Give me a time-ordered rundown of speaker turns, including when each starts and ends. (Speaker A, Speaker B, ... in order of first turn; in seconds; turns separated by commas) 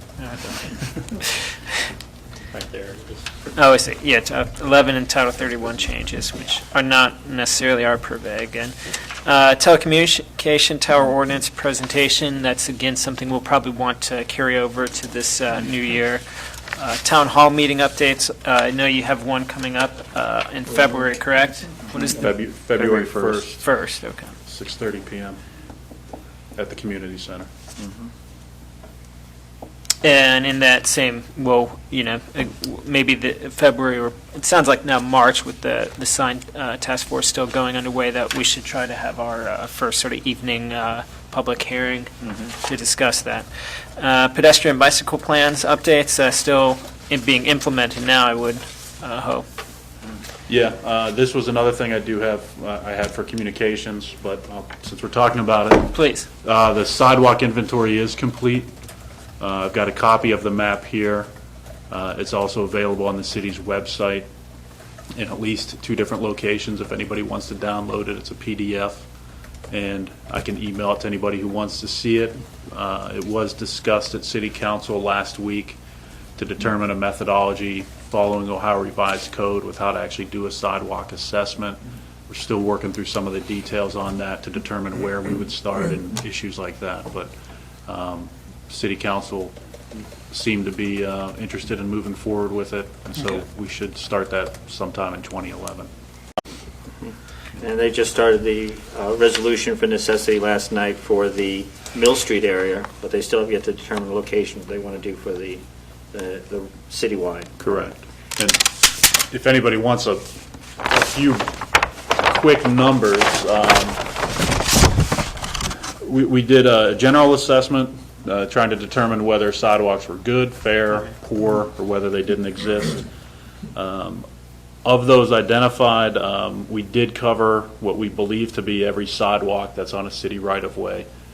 Speaker A: 0.4-0.7, Speaker A: 2.5-3.2, Speaker B: 3.5-24.3, Speaker C: 22.1-23.6, Speaker C: 24.5-25.4, Speaker C: 26.5-27.5, Speaker B: 30.0-49.5, Speaker C: 50.5-58.7, Speaker B: 55.9-56.3, Speaker C: 59.4-61.3, Speaker C: 61.9-64.3, Speaker C: 65.2-69.1, Speaker C: 69.7-75.8, Speaker C: 76.4-87.3, Speaker C: 87.9-89.5, Speaker C: 90.3-95.9, Speaker A: 97.0-107.7, Speaker C: 107.6-108.6, Speaker C: 109.3-110.3, Speaker C: 110.8-111.6, Speaker C: 112.1-114.0, Speaker C: 116.0-123.0, Speaker C: 123.7-124.3, Speaker C: 124.8-131.1